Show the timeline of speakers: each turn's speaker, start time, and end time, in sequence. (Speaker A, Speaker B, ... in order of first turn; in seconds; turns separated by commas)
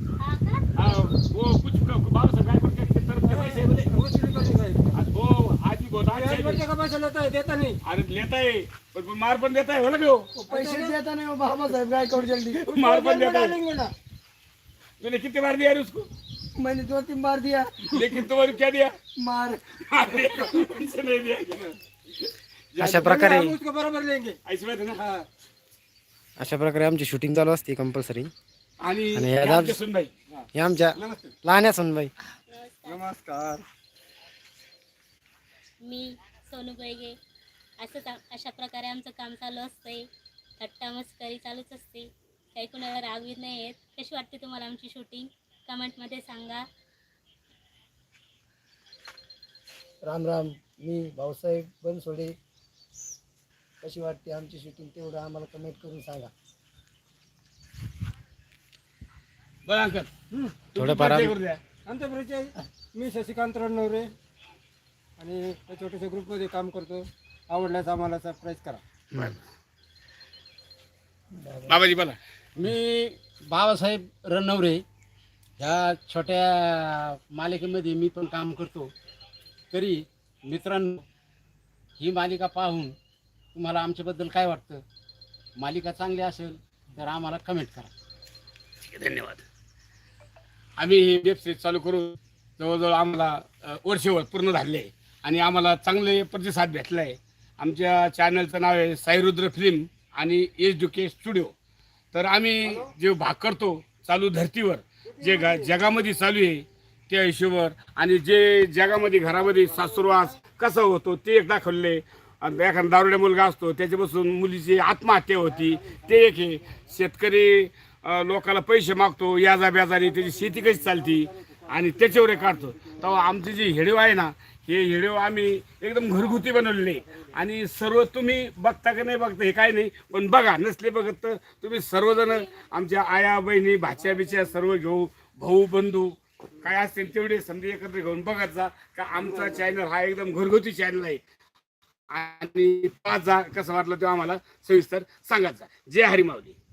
Speaker A: 0.2-0.6, Speaker B: 0.8-3.9, Speaker C: 3.2-5.0, Speaker B: 5.0-6.6, Speaker C: 6.1-7.8, Speaker B: 7.8-10.3, Speaker D: 10.3-12.6, Speaker C: 10.5-11.0, Speaker B: 12.6-13.6, Speaker C: 12.7-13.9, Speaker B: 15.0-16.1, Speaker D: 16.6-18.0, Speaker B: 17.9-19.0, Speaker D: 19.2-19.6, Speaker B: 19.9-23.3, Speaker E: 22.8-23.6, Speaker C: 23.0-24.4, Speaker B: 24.4-25.0, Speaker C: 25.0-25.3, Speaker E: 26.4-28.3, Speaker B: 28.8-30.1, Speaker E: 29.1-29.8, Speaker E: 30.5-32.1, Speaker C: 31.0-31.4, Speaker A: 32.5-33.0, Speaker C: 32.9-33.6, Speaker A: 35.9-37.2, Speaker A: 37.8-40.1, Speaker A: 40.6-46.6, Speaker D: 50.0-52.4, Speaker D: 53.8-56.3, Speaker B: 59.7-60.1, Speaker C: 60.3-60.6, Speaker B: 60.7-61.6, Speaker E: 60.8-61.3, Speaker C: 61.9-64.1, Speaker C: 65.2-68.8, Speaker D: 71.4-71.8, Speaker B: 71.7-72.2, Speaker F: 72.6-74.8, Speaker F: 75.6-78.9, Speaker F: 79.7-81.0, Speaker F: 82.0-83.0, Speaker F: 83.6-84.8, Speaker F: 85.6-87.9, Speaker B: 88.9-89.5, Speaker B: 90.8-101.5, Speaker B: 102.1-141.2, Speaker C: 102.7-102.9, Speaker C: 105.1-105.8, Speaker C: 109.4-110.3, Speaker C: 115.7-116.0, Speaker C: 120.2-123.3, Speaker C: 139.2-139.7, Speaker B: 142.1-146.6